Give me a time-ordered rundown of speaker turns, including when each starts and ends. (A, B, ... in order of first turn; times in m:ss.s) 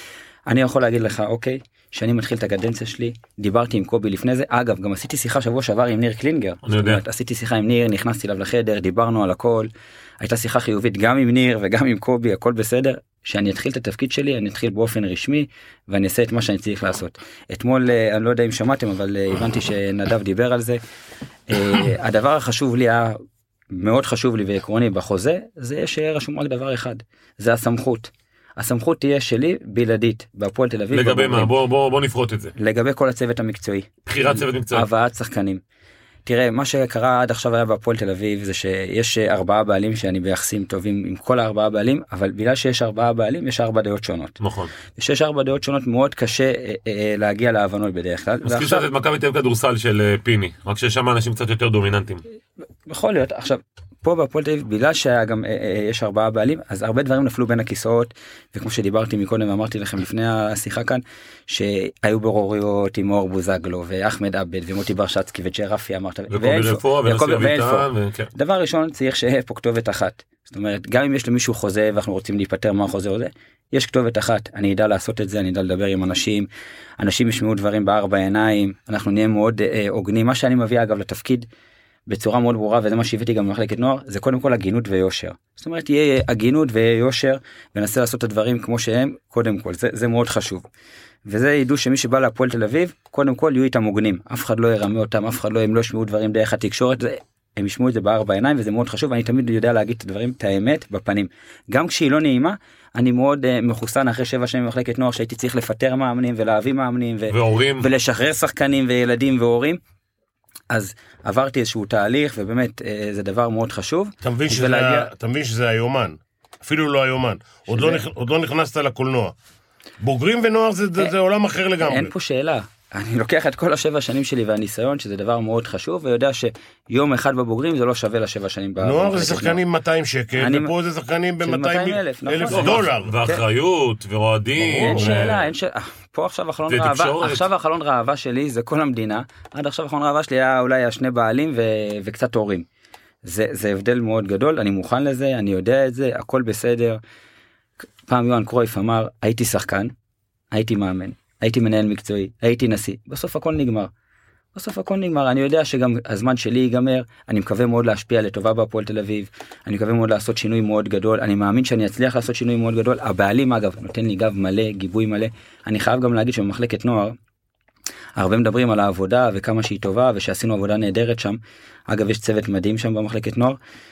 0:00.4-0:09.7 A
0:06.6-0:07.0 B
0:10.2-0:20.8 A
0:21.5-0:23.2 A
0:23.7-0:31.5 A
0:30.9-0:32.5 B
0:32.6-0:35.6 A
0:34.1-0:34.8 B
0:36.2-0:44.4 A
0:44.4-0:44.7 B
0:45.0-0:48.8 A
0:48.4-0:52.2 B
0:52.8-1:16.5 A
1:06.3-1:08.3 B
1:17.0-1:21.5 A
1:22.1-1:30.6 A
1:31.2-1:49.8 A
1:47.3-1:47.9 B
1:50.7-1:55.1 A
1:54.2-1:59.3 C
1:57.7-1:58.0 A
2:00.0-2:02.1 C
2:01.8-2:09.6 A
2:08.8-2:13.2 C
2:10.4-2:10.7 A
2:11.4-2:13.4 A
2:12.5-2:15.4 B
2:14.6-2:15.4 C
2:14.8-2:22.6 A
2:16.7-2:17.4 B
2:23.2-2:27.0 A
2:28.1-2:29.9 A
2:30.5-2:33.9 A
2:34.5-2:47.2 A
2:48.2-2:53.6 A